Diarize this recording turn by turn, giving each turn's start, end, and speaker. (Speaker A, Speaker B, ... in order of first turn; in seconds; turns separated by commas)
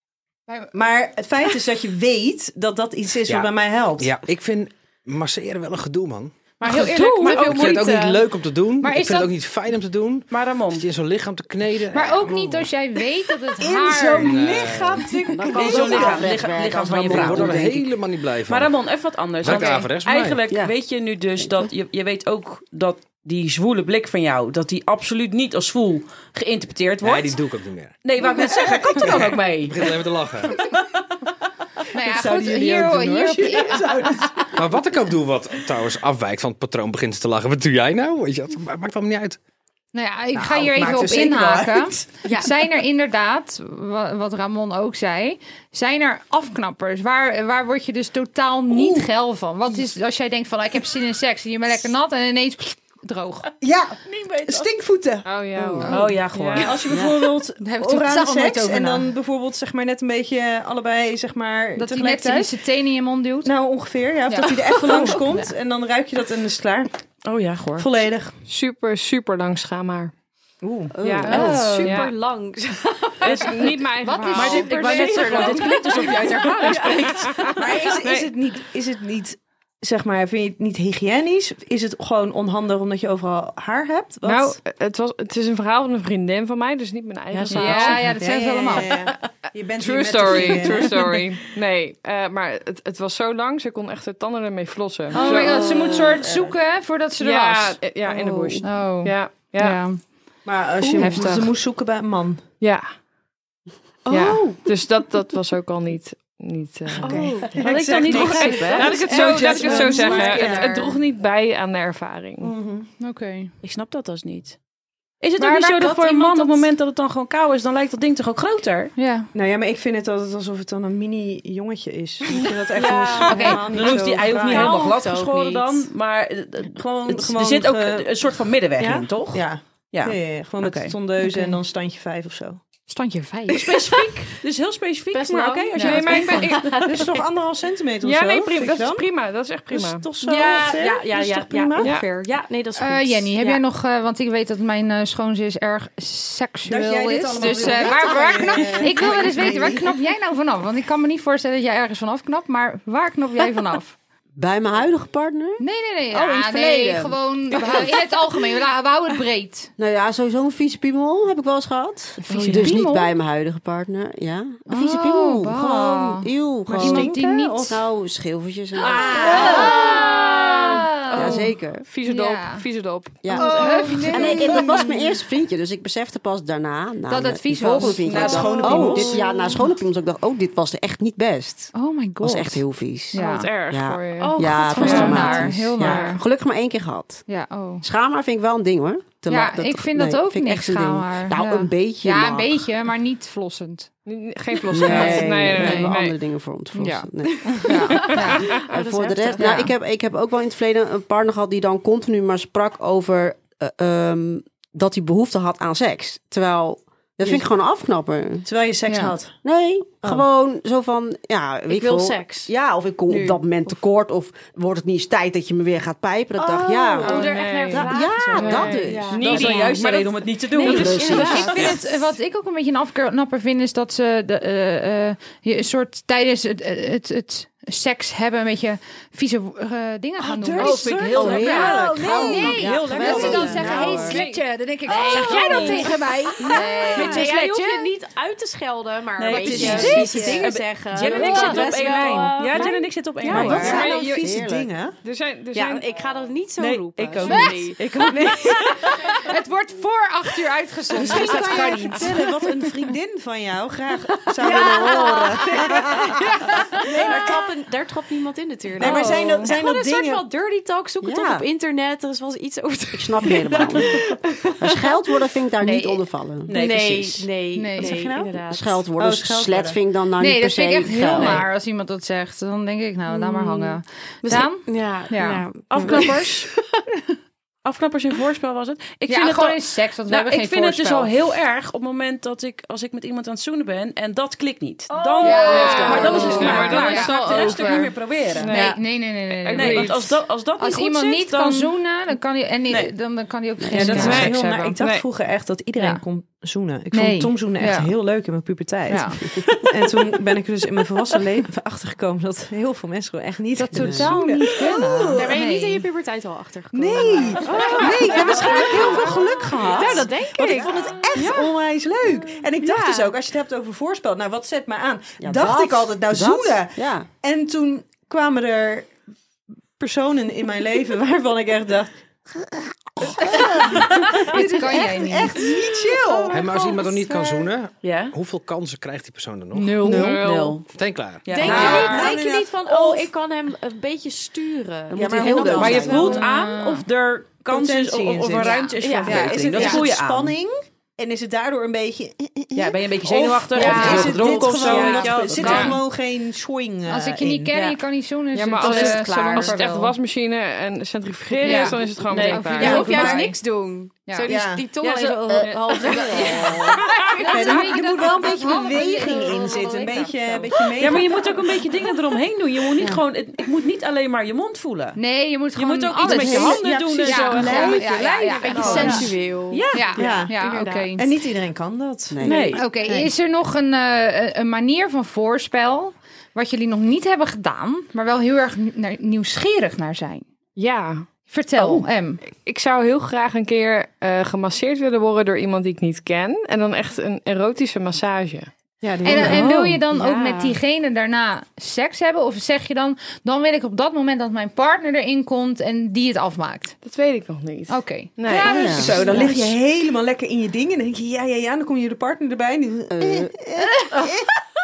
Speaker A: 0.7-4.1, Speaker B: 3.3-6.3, Speaker C: 6.6-8.2, Speaker D: 6.6-7.9, Speaker B: 7.2-12.7, Speaker E: 8.8-9.3, Speaker D: 10.3-10.8, Speaker E: 11.9-14.5, Speaker A: 13.6-16.4, Speaker B: 14.2-15.1, Speaker F: 15.3-17.9, Speaker D: 15.5-17.9, Speaker B: 16.9-18.8, Speaker D: 18.5-27.4, Speaker B: 19.4-20.4, Speaker F: 20.5-20.8, Speaker F: 21.4-21.7, Speaker B: 27.0-28.0, Speaker D: 28.0-29.9, Speaker A: 28.3-29.4, Speaker B: 28.9-30.7, Speaker E: 31.9-34.3, Speaker A: 32.0-34.4, Speaker B: 34.5-39.4, Speaker E: 39.9-53.5, Speaker A: 40.4-42.1, Speaker A: 48.7-49.1, Speaker A: 53.6-55.9, Speaker D: 54.1-54.7, Speaker G: 55.2-56.8, Speaker E: 55.8-56.1, Speaker D: 55.9-56.8, Speaker A: 56.6-62.5, Speaker F: 56.9-57.1, Speaker E: 57.6-59.1, Speaker E: 61.8-63.5, Speaker A: 63.5-66.9, Speaker E: 64.3-65.5, Speaker D: 67.2-67.9, Speaker A: 67.8-68.3, Speaker G: 68.5-70.1, Speaker A: 70.6-71.0, Speaker F: 71.0-71.5, Speaker G: 71.0-72.1, Speaker C: 71.2-73.8, Speaker D: 71.3-71.9, Speaker G: 73.2-78.3, Speaker D: 73.2-73.8, Speaker E: 74.0-75.4, Speaker D: 74.3-77.5, Speaker C: 74.8-77.5, Speaker A: 77.6-84.6, Speaker G: 84.2-88.1, Speaker D: 87.3-87.9, Speaker E: 87.5-88.9, Speaker A: 88.2-91.2, Speaker G: 89.8-95.7, Speaker E: 95.1-97.8, Speaker C: 95.2-96.5, Speaker G: 97.2-99.8, Speaker E: 98.6-100.0, Speaker A: 100.5-102.4, Speaker E: 101.0-101.5, Speaker C: 101.0-101.2, Speaker G: 101.0-101.3, Speaker G: 102.6-102.9, Speaker G: 104.1-112.5, Speaker A: 104.1-104.6, Speaker A: 106.9-111.0, Speaker C: 107.0-107.6, Speaker D: 107.5-109.3, Speaker C: 109.1-110.7, Speaker E: 109.1-110.8, Speaker A: 112.4-112.9, Speaker E: 113.0-113.5, Speaker D: 113.6-114.6, Speaker D: 115.2-118.9, Speaker E: 115.4-116.6, Speaker E: 119.0-119.3, Speaker A: 119.3-124.8, Speaker C: 122.7-125.8, Speaker D: 123.2-130.9, Speaker A: 126.8-128.1, Speaker A: 128.8-132.6, Speaker E: 131.2-131.6, Speaker E: 132.9-133.7, Speaker C: 133.5-134.4, Speaker D: 133.8-136.7, Speaker C: 135.1-137.1, Speaker E: 135.8-136.1, Speaker G: 135.8-136.8, Speaker A: 136.9-139.1, Speaker G: 138.0-140.1, Speaker A: 139.7-141.9, Speaker C: 140.2-143.6, Speaker G: 141.8-142.1, Speaker E: 142.8-154.0, Speaker A: 146.7-149.9, Speaker F: 147.5-149.6, Speaker F: 154.4-157.9, Speaker E: 155.6-159.7, Speaker F: 159.8-169.5, Speaker E: 162.2-163.1, Speaker E: 164.7-167.8, Speaker A: 166.7-167.8, Speaker D: 168.8-169.7, Speaker E: 169.1-171.5, Speaker C: 169.2-170.4, Speaker G: 169.2-169.8, Speaker A: 169.3-169.7, Speaker G: 171.1-173.3, Speaker F: 171.1-171.9, Speaker E: 172.0-172.6, Speaker F: 173.2-187.2, Speaker E: 173.3-174.9, Speaker C: 173.4-174.8, Speaker E: 177.1-179.3, Speaker A: 177.8-179.2, Speaker C: 178.3-179.5, Speaker E: 181.7-183.5, Speaker G: 183.2-186.2, Speaker C: 184.2-185.6, Speaker E: 184.8-186.2, Speaker E: 187.3-187.8, Speaker F: 187.8-192.7, Speaker E: 189.3-193.9, Speaker G: 194.1-196.2, Speaker F: 194.7-198.2, Speaker E: 194.7-195.9, Speaker G: 196.8-199.5, Speaker C: 197.5-198.1, Speaker E: 197.6-198.5, Speaker C: 198.7-199.7, Speaker F: 198.7-208.5, Speaker E: 199.4-199.7, Speaker A: 208.5-209.3, Speaker E: 208.9-209.1, Speaker F: 209.4-220.0, Speaker C: 211.7-212.5, Speaker C: 213.1-213.4, Speaker C: 216.4-222.1, Speaker G: 217.0-219.7, Speaker D: 219.1-221.6, Speaker F: 220.6-221.8, Speaker E: 220.8-237.3, Speaker A: 230.2-231.7, Speaker D: 230.5-233.9, Speaker C: 230.8-232.5, Speaker F: 231.0-234.2, Speaker C: 233.1-233.7, Speaker G: 233.7-235.8, Speaker D: 234.9-235.9, Speaker C: 234.9-243.9, Speaker A: 235.3-235.6, Speaker A: 236.5-237.0, Speaker D: 236.9-237.9, Speaker D: 239.2-243.8, Speaker A: 239.3-240.4, Speaker E: 239.5-240.1, Speaker E: 241.1-241.7, Speaker A: 241.2-242.7, Speaker E: 242.5-242.8, Speaker A: 243.2-245.0, Speaker F: 243.3-244.7, Speaker E: 243.3-243.8, Speaker G: 243.5-244.3, Speaker G: 245.0-245.9, Speaker C: 245.5-249.3, Speaker D: 246.6-249.1, Speaker E: 247.2-252.4, Speaker A: 250.9-256.2, Speaker C: 251.2-252.2, Speaker C: 254.1-268.8, Speaker A: 256.9-257.5, Speaker A: 258.8-260.3, Speaker E: 258.8-259.5, Speaker F: 261.0-261.4, Speaker F: 262.9-266.6, Speaker D: 266.5-267.2, Speaker A: 266.5-267.2, Speaker E: 267.6-267.9, Speaker A: 267.8-268.3, Speaker F: 268.5-271.4, Speaker A: 269.0-269.8, Speaker E: 270.2-276.0, Speaker C: 271.1-271.5, Speaker C: 273.1-276.6, Speaker D: 275.7-276.5, Speaker D: 277.6-288.8, Speaker E: 279.1-281.2, Speaker C: 284.9-286.8, Speaker E: 285.2-287.8, Speaker G: 285.4-288.8, Speaker A: 285.6-287.1, Speaker E: 288.5-294.8, Speaker G: 289.4-290.2, Speaker D: 289.5-291.8, Speaker F: 293.6-294.3, Speaker A: 293.7-305.4, Speaker G: 293.8-295.1, Speaker E: 295.8-296.0, Speaker E: 296.9-297.9, Speaker E: 298.9-299.3, Speaker E: 303.6-305.9, Speaker F: 303.7-304.4, Speaker C: 305.1-313.1, Speaker A: 306.7-318.9, Speaker F: 308.7-310.1, Speaker F: 310.6-310.9, Speaker F: 315.2-317.1, Speaker A: 319.8-326.4, Speaker E: 324.3-325.4, Speaker B: 326.3-329.9, Speaker D: 327.8-328.1, Speaker G: 329.8-330.6, Speaker A: 329.8-330.2, Speaker E: 329.8-330.2, Speaker D: 329.9-330.6, Speaker B: 330.7-331.5, Speaker D: 331.2-332.2, Speaker C: 331.3-336.2, Speaker A: 331.4-333.0, Speaker F: 334.9-336.2, Speaker A: 335.0-335.9, Speaker D: 335.6-340.4, Speaker E: 335.9-336.9, Speaker A: 337.5-347.5, Speaker C: 338.4-339.9, Speaker D: 342.5-345.8, Speaker C: 343.5-345.7, Speaker E: 343.8-344.1, Speaker G: 345.3-345.8, Speaker E: 346.9-349.9, Speaker G: 348.3-353.3, Speaker C: 348.6-349.6, Speaker C: 351.4-356.7, Speaker E: 351.4-353.3, Speaker D: 352.1-352.4, Speaker A: 352.6-353.3, Speaker A: 354.2-354.6, Speaker D: 354.8-355.4, Speaker F: 355.3-356.5, Speaker G: 355.4-357.4, Speaker E: 357.1-360.6, Speaker A: 357.3-361.2, Speaker D: 360.8-365.0, Speaker E: 365.0-369.1, Speaker D: 365.6-370.0, Speaker A: 366.0-367.9, Speaker C: 368.2-370.9, Speaker A: 368.5-369.1, Speaker E: 369.7-371.1, Speaker A: 370.0-372.6, Speaker F: 372.1-372.6, Speaker D: 372.2-372.6, Speaker E: 372.6-380.2, Speaker G: 380.6-381.1, Speaker E: 381.3-382.2, Speaker G: 381.7-388.5, Speaker A: 388.8-389.5, Speaker E: 389.1-396.8, Speaker C: 389.1-390.6, Speaker D: 389.2-389.8, Speaker G: 396.8-398.6, Speaker E: 397.7-399.5, Speaker F: 398.4-399.2, Speaker A: 398.7-404.3, Speaker F: 402.9-403.3